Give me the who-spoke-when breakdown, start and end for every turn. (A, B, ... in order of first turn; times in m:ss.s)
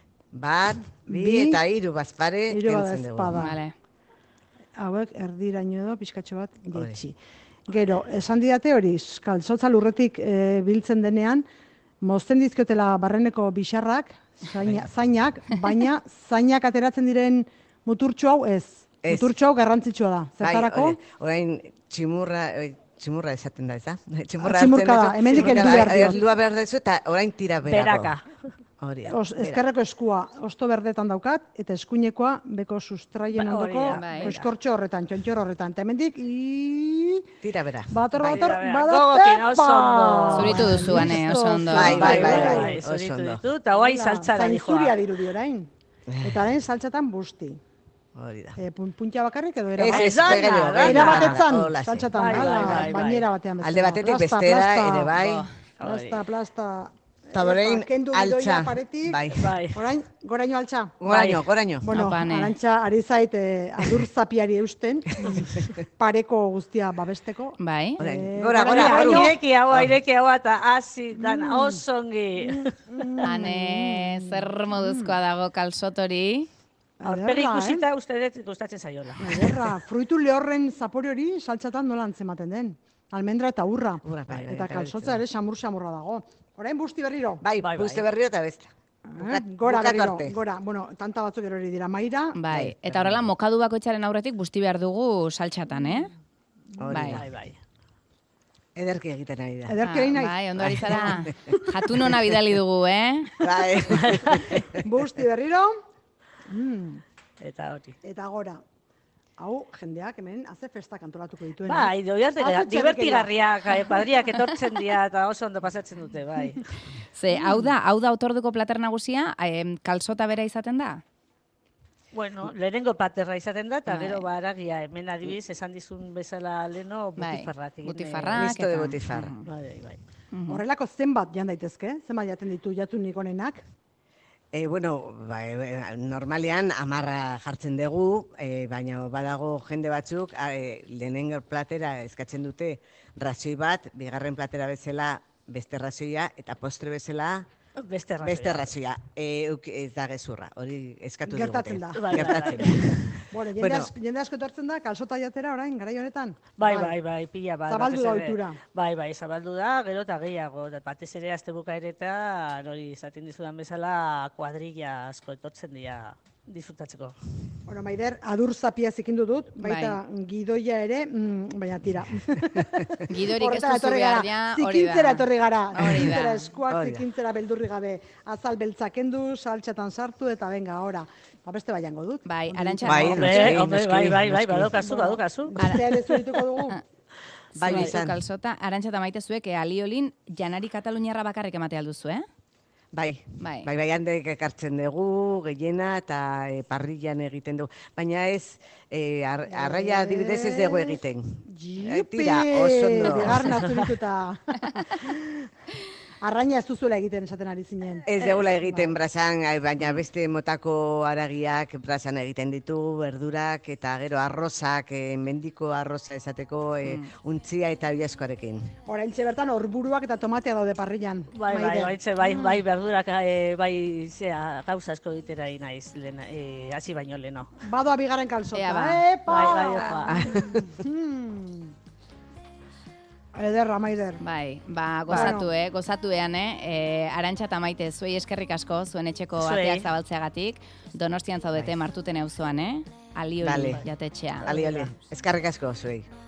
0:00.3-0:03.4 A
0:01.1-0:01.6 B
0:02.5-0:03.6 B
0:03.3-0:03.7 C
0:04.8-0:07.2 B
0:06.7-0:07.0 A
0:07.7-0:11.4 B
0:12.0-0:21.0 B
0:14.6-0:14.9 A
0:19.0-0:19.3 A
0:20.4-0:28.1 A
0:24.4-0:26.2 B
0:25.3-0:25.9 D
0:27.6-0:28.3 D
0:28.8-0:29.6 A
0:29.1-0:37.2 B
0:33.3-0:34.5 D
0:33.9-0:34.3 C
0:37.4-0:37.9 A
0:37.9-0:42.8 B
0:38.2-0:41.1 D
0:40.3-0:42.5 C
0:41.7-0:43.4 A
0:41.7-0:45.0 D
0:43.7-0:45.7 B
0:46.1-0:46.4 A
0:46.2-0:47.6 B
0:48.2-0:48.6 A
0:48.6-0:55.1 B
0:49.8-0:52.9 A
0:49.9-0:51.4 D
0:52.1-0:53.3 D
0:53.6-0:55.5 A
0:55.1-0:55.5 C
0:55.8-0:56.2 D
0:55.8-0:59.2 B
0:57.3-0:59.5 A
0:59.3-0:59.8 D
0:59.7-1:01.0 B
1:01.0-1:02.0 A
1:01.0-1:01.4 D
1:01.8-1:09.4 B
1:01.9-1:02.5 C
1:07.6-1:08.0 C
1:08.0-1:09.9 A
1:08.6-1:13.2 D
1:11.2-1:11.8 B
1:12.4-1:15.2 B
1:13.2-1:16.5 C
1:17.0-1:17.8 B
1:17.0-1:19.6 D
1:19.2-1:27.4 B
1:24.0-1:25.2 A
1:27.4-1:30.4 A
1:27.6-1:28.0 D
1:29.0-1:32.4 B
1:32.3-1:36.1 C
1:32.5-1:33.3 A
1:36.8-1:37.2 A
1:36.9-1:37.2 C
1:37.0-1:37.6 D
1:38.7-1:39.8 A
1:39.7-1:41.6 B
1:39.8-1:43.4 C
1:40.6-1:41.2 A
1:43.4-1:44.7 A
1:43.9-1:44.4 D
1:44.5-1:45.7 B
1:46.5-1:47.0 B
1:47.4-1:47.9 D
1:48.0-1:48.6 B
1:49.4-1:53.3 B
1:51.6-1:56.6 D
1:57.1-2:01.0 C
2:02.1-2:08.5 D
2:03.9-2:04.2 C
2:07.2-2:09.5 C
2:08.3-2:09.3 A
2:09.4-2:10.0 D
2:10.3-2:10.6 C
2:10.5-2:13.6 B
2:14.5-2:27.5 A
2:27.8-2:28.7 D
2:28.2-2:33.9 A
2:31.3-2:36.9 B
2:31.9-2:33.0 D
2:36.6-2:47.2 D
2:37.7-2:38.6 B
2:47.7-3:03.6 B
2:49.6-2:50.0 C
2:53.1-2:56.5 C
2:55.8-2:57.0 A
3:02.2-3:03.6 C
3:02.8-3:04.7 A
3:03.1-3:05.8 D
3:04.7-3:06.8 B
3:07.5-3:08.2 A
3:07.5-3:12.2 C
3:07.7-3:07.9 D
3:12.9-3:23.6 A
3:13.4-3:13.7 C
3:19.5-3:25.5 B
3:23.4-3:23.8 D
3:26.2-3:28.9 B
3:28.1-3:38.7 A
3:36.8-3:37.1 C
3:38.8-3:42.6 B
3:41.3-3:47.5 D
3:47.6-3:51.7 B
3:48.5-3:49.0 C
3:49.2-3:50.2 D
3:50.1-3:50.8 A
3:53.3-3:54.2 B
3:54.2-4:04.5 C
3:55.1-3:55.4 D
3:55.1-3:55.5 B
3:59.4-3:59.9 D
4:03.4-4:03.8 A
4:04.4-4:04.9 D
4:04.4-4:06.1 A